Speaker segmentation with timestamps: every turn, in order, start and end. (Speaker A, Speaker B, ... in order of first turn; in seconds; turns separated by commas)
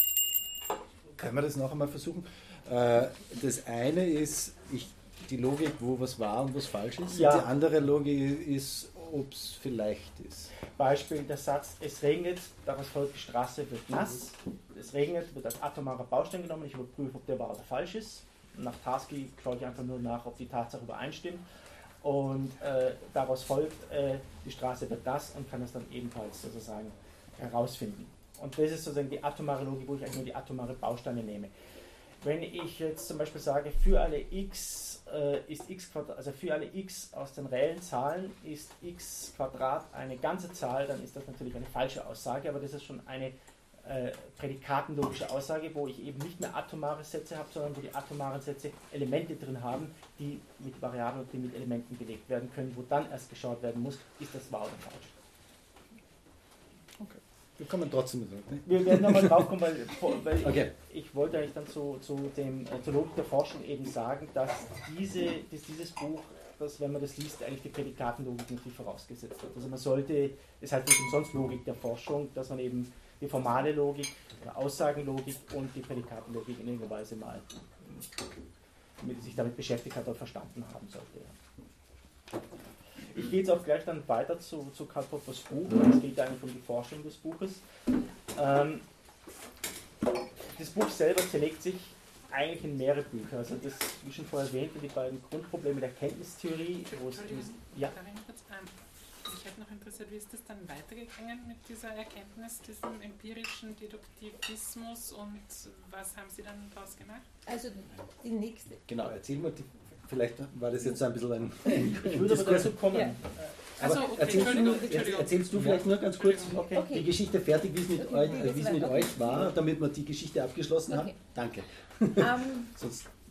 Speaker A: 1.2-10.5, Speaker B: 7.1-7.5, Speaker B: 10.6-21.4, Speaker B: 22.0-31.5, Speaker B: 32.2-55.1, Speaker A: 57.6-59.5, Speaker B: 58.6-77.5, Speaker A: 60.4-60.7, Speaker B: 79.0-81.3, Speaker B: 83.1-87.6, Speaker B: 88.3-88.8, Speaker B: 90.5-97.9, Speaker C: 96.9-107.2, Speaker D: 107.5-108.8, Speaker A: 108.9-112.8, Speaker B: 111.9-113.4, Speaker C: 113.8-116.6, Speaker A: 113.8-123.1, Speaker B: 114.3-115.9, Speaker B: 116.4-116.9, Speaker D: 116.7-117.2, Speaker D: 117.9-119.5, Speaker D: 120.9-121.1, Speaker D: 122.2-122.7